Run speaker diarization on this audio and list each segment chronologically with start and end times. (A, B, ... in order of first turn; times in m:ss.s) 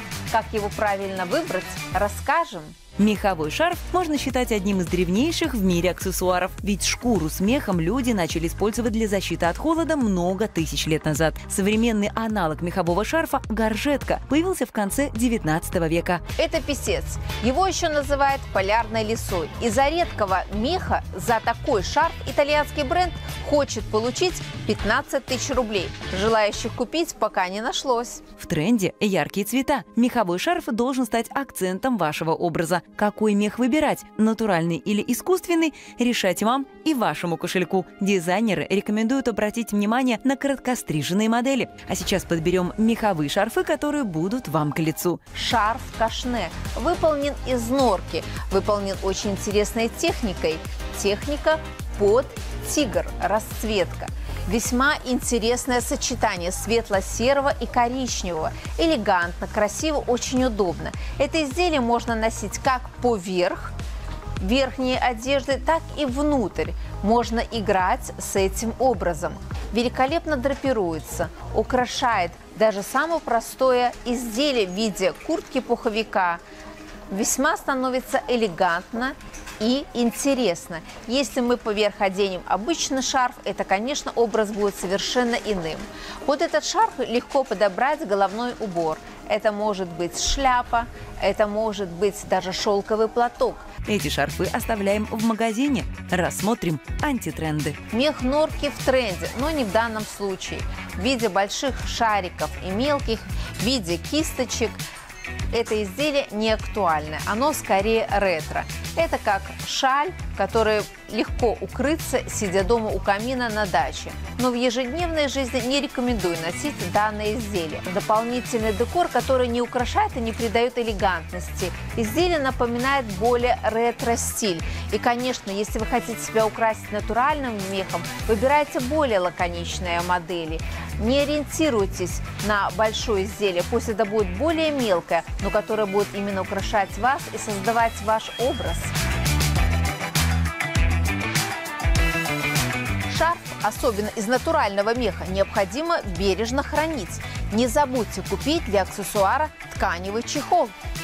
0:00.3-0:02.8 A
0:03.0-0:16.2 B
0:16.4-0:28.2 A
0:28.4-0:45.2 B
0:45.3-1:03.7 A
1:04.4-1:16.4 A
1:17.1-1:33.7 A
1:33.8-1:37.8 B
1:37.9-1:44.8 A
1:45.5-2:18.9 A
2:23.1-2:30.7 A